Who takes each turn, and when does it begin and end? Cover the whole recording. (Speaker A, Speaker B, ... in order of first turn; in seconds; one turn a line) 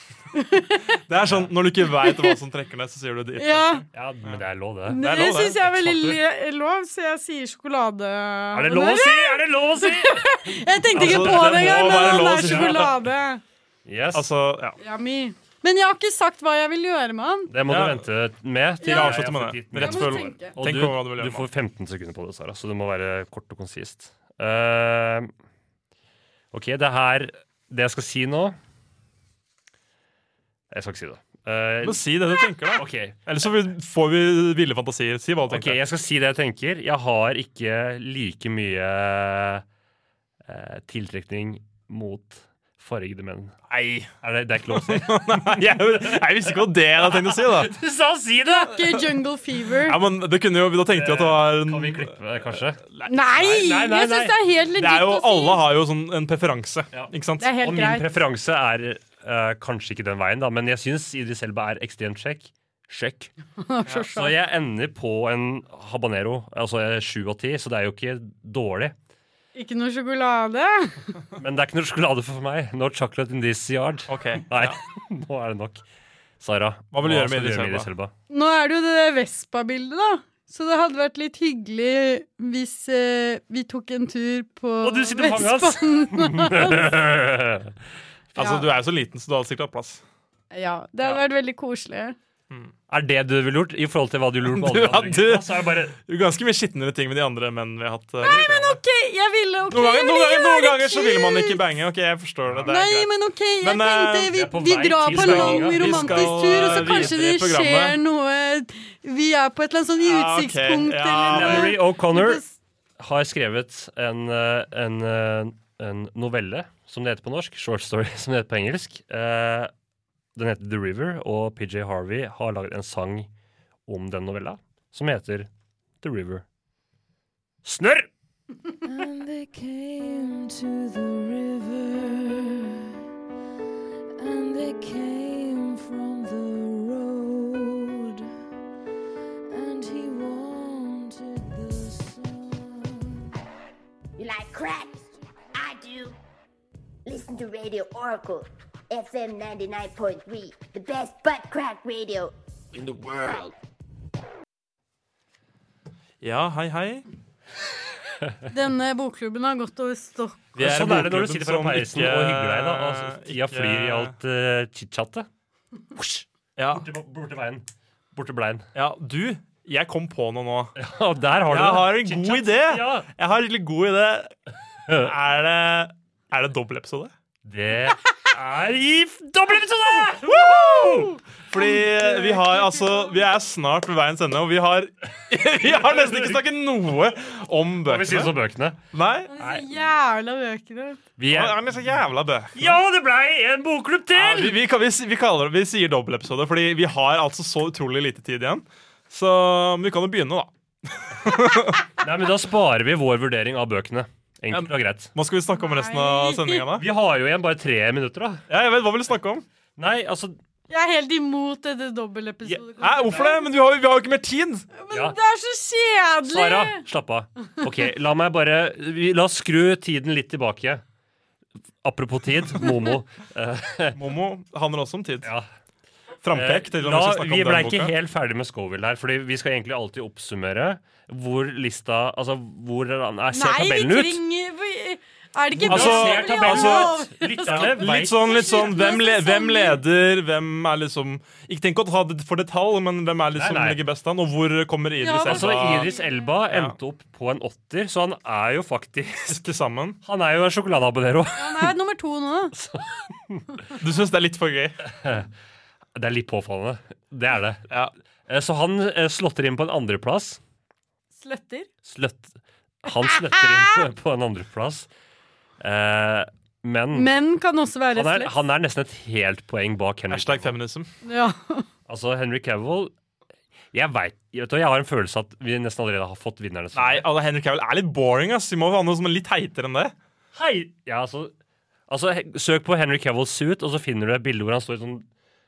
Speaker A: 0.3-0.9
Speaker B: 1.1-4.4
Speaker A: 1.9-2.3
Speaker A: 3.4-3.8
Speaker C: 3.9-6.2
Speaker A: 4.9-13.4
Speaker B: 5.0-5.6
Speaker C: 8.5-13.0
Speaker B: 10.9-12.9
Speaker C: 13.8-14.3
Speaker B: 14.1-14.8
Speaker A: 14.8-17.5
Speaker C: 17.5-25.3
Speaker B: 17.7-18.1
Speaker A: 18.8-19.2
Speaker B: 18.9-21.4
Speaker A: 19.7-20.6
Speaker C: 26.5-28.6
Speaker C: 30.7-32.0
Speaker B: 31.8-35.8
Speaker C: 32.7-33.2
Speaker C: 35.5-39.6
Speaker C: 40.5-43.5
Speaker B: 43.7-44.1
Speaker C: 44.2-48.9
Speaker B: 44.7-47.7
Speaker A: 48.5-50.0
Speaker B: 49.8-53.6
Speaker C: 50.9-52.8
Speaker A: 53.1-55.6
Speaker C: 53.4-54.4
Speaker B: 54.7-57.5
Speaker C: 56.9-63.3
Speaker A: 57.4-58.0
Speaker A: 63.6-64.3
Speaker C: 64.0-69.0
Speaker A: 69.5-71.0
Speaker C: 71.4-75.8
Speaker B: 74.1-74.8
Speaker C: 76.4-78.1
Speaker B: 76.9-77.9
Speaker A: 78.3-86.9
Speaker C: 84.8-87.8
Speaker B: 88.3-90.0
Speaker A: 88.4-88.7
Speaker A: 90.5-92.2
Speaker C: 92.9-96.0
Speaker B: 94.5-98.8
Speaker A: 98.2-101.6
Speaker C: 98.2-98.5
Speaker B: 99.7-103.1
Speaker A: 102.7-112.5
Speaker B: 103.6-104.3
Speaker C: 104.3-107.2
Speaker B: 105.1-108.0
Speaker B: 110.0-111.8
Speaker C: 111.3-112.4
Speaker C: 113.0-119.7
Speaker C: 120.3-123.3
Speaker C: 123.9-125.5
Speaker C: 126.0-126.4
Speaker C: 127.6-128.1
Speaker D: 128.8-132.9
Speaker D: 134.2-138.2
Speaker D: 139.5-143.3
Speaker E: 144.2-146.2
Speaker E: 147.0-153.5
Speaker B: 156.2-157.0
Speaker A: 158.4-160.4
Speaker B: 160.5-164.1
Speaker C: 160.6-165.3
Speaker C: 165.9-168.7
Speaker B: 166.6-166.8
Speaker B: 168.7-170.8
Speaker C: 170.8-173.1
Speaker B: 171.5-174.3
Speaker B: 174.9-177.1
Speaker C: 177.4-181.2
Speaker B: 180.3-188.4
Speaker A: 181.5-183.2
Speaker C: 187.8-188.8
Speaker B: 188.9-189.3
Speaker A: 189.3-191.0
Speaker C: 189.3-189.7
Speaker C: 191.2-191.6
Speaker B: 191.3-192.8
Speaker C: 192.5-194.6
Speaker B: 194.1-201.8
Speaker C: 202.0-205.1
Speaker B: 204.5-206.9
Speaker A: 205.6-206.6
Speaker C: 206.7-208.4
Speaker B: 208.5-209.4
Speaker C: 209.8-210.4
Speaker A: 210.7-213.5
Speaker B: 212.5-214.7
Speaker A: 214.7-216.8
Speaker C: 214.9-215.2
Speaker C: 216.2-220.8
Speaker C: 221.8-224.0
Speaker B: 223.9-225.3
Speaker C: 225.2-225.5
Speaker B: 226.2-227.9
Speaker C: 226.3-234.2
Speaker A: 233.3-239.8
Speaker C: 235.5-238.7
Speaker B: 235.7-236.9
Speaker B: 237.5-245.9
Speaker C: 243.3-243.8
Speaker A: 245.0-246.2
Speaker C: 245.2-249.4
Speaker B: 246.5-246.8
Speaker B: 249.3-250.0
Speaker C: 250.0-251.7
Speaker A: 251.4-252.5
Speaker C: 252.5-253.7
Speaker B: 253.8-254.8
Speaker C: 254.8-255.3
Speaker C: 255.9-257.6
Speaker C: 258.3-260.4
Speaker A: 261.2-261.7
Speaker C: 261.8-264.9
Speaker A: 263.0-263.8
Speaker C: 265.6-267.1
Speaker A: 266.9-268.4
Speaker C: 267.9-270.6
Speaker B: 270.1-270.9
Speaker A: 271.0-271.7
Speaker C: 271.9-272.9
Speaker C: 273.7-277.1
Speaker B: 276.7-279.9
Speaker C: 280.3-281.3
Speaker C: 281.9-285.1